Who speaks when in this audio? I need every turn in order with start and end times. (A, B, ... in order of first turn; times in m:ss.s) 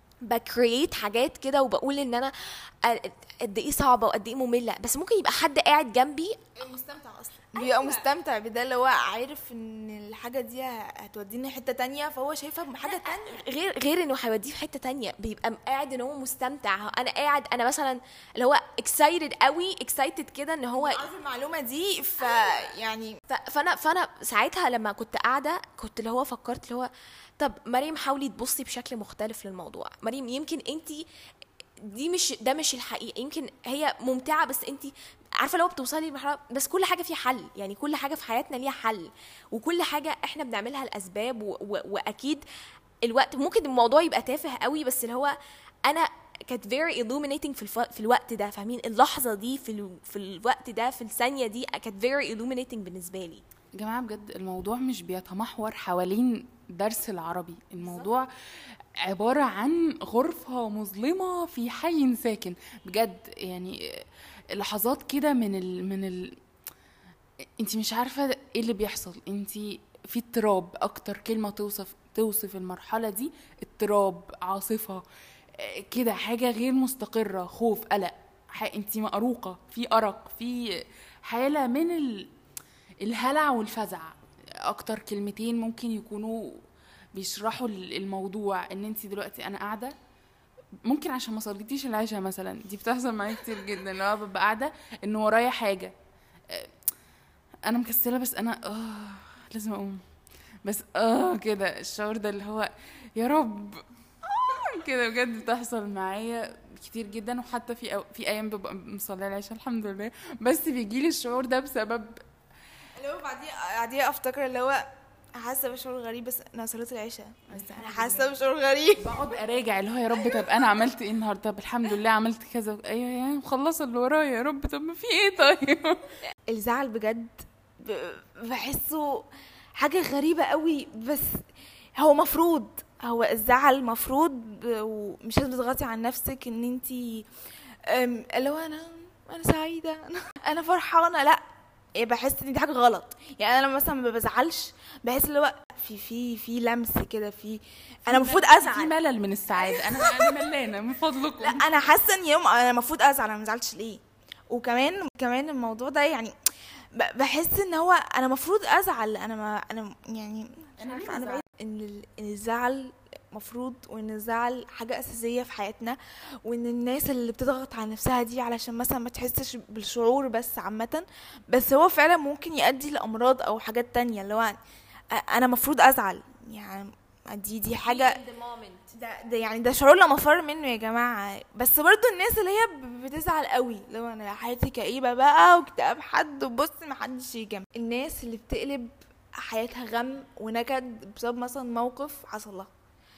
0:00.2-0:06.6 A
0:06.6-0:13.4 B
0:07.5-0:08.1 A
0:12.8-0:21.0 A
0:20.8-0:23.2 B
0:22.2-0:22.6 A
0:23.3-0:31.0 A
0:31.8-0:42.4 A
0:43.0-0:53.4 A
0:53.8-0:58.3 C
0:59.0-1:06.4 C
1:07.6-1:20.7 C
1:21.2-1:22.3 C
1:23.0-1:30.0 C
1:30.8-1:35.9 C
1:37.6-1:40.0 C
1:40.6-1:52.2 C
1:53.0-1:54.9 B
1:55.4-1:59.2 B
1:57.5-1:58.4 C
1:59.0-2:06.1 C
2:06.5-2:09.2 B
2:09.8-2:11.4 B
2:12.0-2:17.2 B
2:17.9-2:21.4 B
2:22.0-2:28.9 B
2:28.1-2:31.7 C
2:28.3-2:28.6 A
2:29.5-2:30.4 B
2:31.4-2:36.3 B
2:36.9-2:54.6 B
2:40.8-2:41.4 C
2:55.1-2:58.2 B
2:57.8-2:58.9 A
2:58.9-3:12.7 B